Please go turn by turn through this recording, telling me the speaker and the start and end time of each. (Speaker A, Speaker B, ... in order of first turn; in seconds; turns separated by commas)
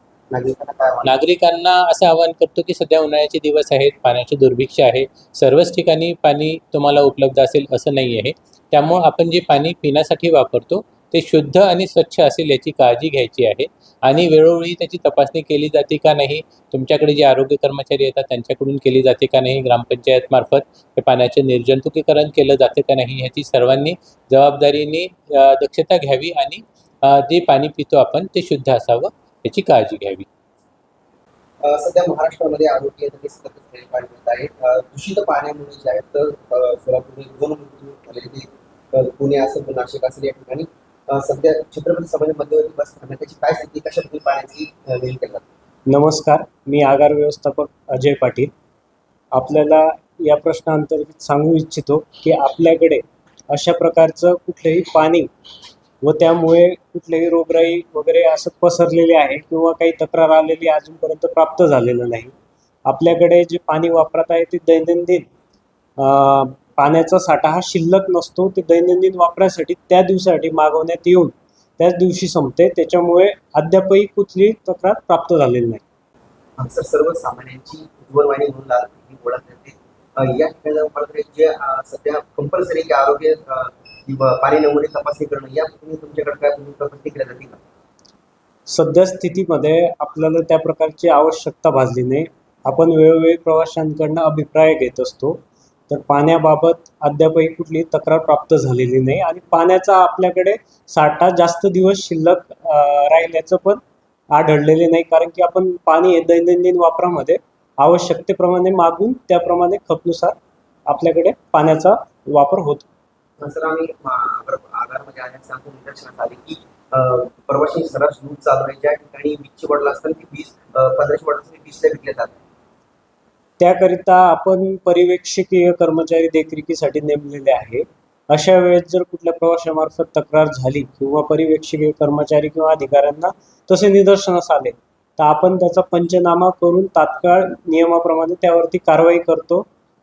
Speaker A: 0.3-1.1, Speaker B: 1.0-30.2, Speaker A: 31.6-45.4, Speaker C: 45.9-48.5, Speaker C: 49.3-55.3, Speaker C: 56.0-62.3, Speaker C: 62.9-65.3, Speaker C: 66.0-75.8, Speaker A: 76.6-87.6, Speaker C: 88.7-103.8, Speaker C: 104.3-110.3, Speaker C: 110.9-112.8, Speaker A: 113.4-122.4, Speaker C: 123.6-139.7